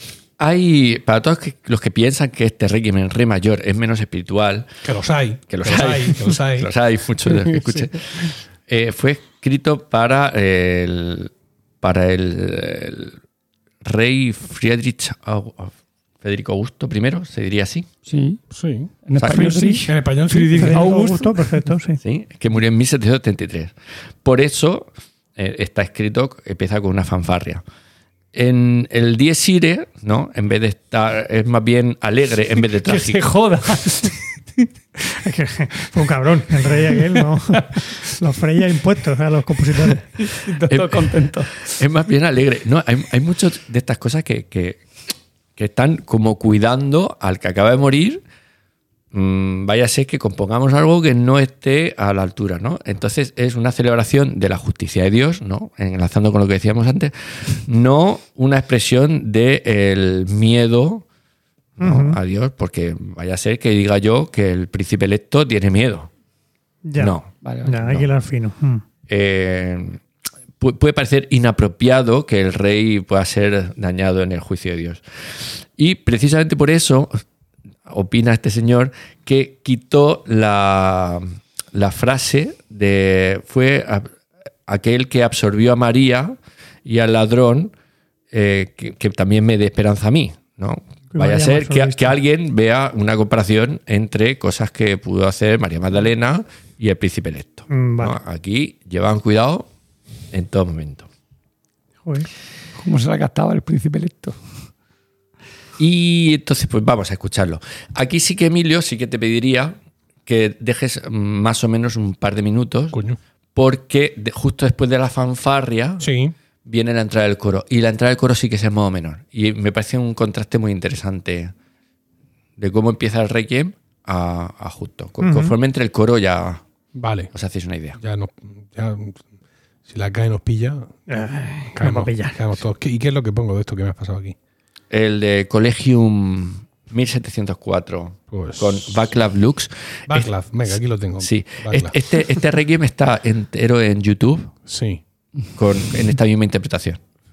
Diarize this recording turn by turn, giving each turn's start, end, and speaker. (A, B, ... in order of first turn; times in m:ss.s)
0:00.4-0:04.7 A
0:04.8-0:06.7 B
0:05.5-0:13.2 A
0:07.4-0:07.8 B
0:13.8-0:17.9 A
0:18.0-0:18.4 C
0:18.5-0:20.8 B
0:19.0-0:21.4 C
0:19.2-0:19.5 A
0:19.3-0:19.8 D
0:20.5-0:22.0 D
0:22.0-0:27.6 A
0:28.3-0:33.3 A
0:32.8-0:34.2 C
0:35.1-0:40.1 D
0:37.5-0:37.8 C
0:39.8-0:41.5 C
0:40.7-0:48.2 A
0:49.1-1:01.0 A
1:01.8-1:06.1 A
1:01.8-1:02.2 D
1:06.8-1:07.1 D
1:07.0-1:07.3 A
1:07.4-1:07.9 C
1:07.6-1:08.8 D
1:09.1-1:10.0 A
1:10.6-1:17.2 A
1:17.9-1:27.7 A
1:28.3-1:39.7 A
1:31.1-1:32.1 D
1:37.7-1:38.2 D
1:40.3-1:41.1 A
1:42.0-1:42.3 D
1:42.8-1:44.4 C
1:45.8-1:53.0 A
1:52.9-1:53.2 B
1:53.5-1:56.1 A
1:56.0-1:56.3 B
1:56.6-2:01.5 A
2:02.6-2:06.6 A
2:05.2-2:05.5 D
2:06.9-2:07.3 B
2:07.3-2:08.0 A
2:08.0-2:09.2 B
2:09.8-2:10.9 B
2:11.1-2:12.4 D
2:11.7-2:14.4 B
2:14.9-2:24.5 A
2:18.3-2:18.9 B
2:20.1-2:21.9 B
2:24.7-2:25.0 B
2:25.5-2:27.0 A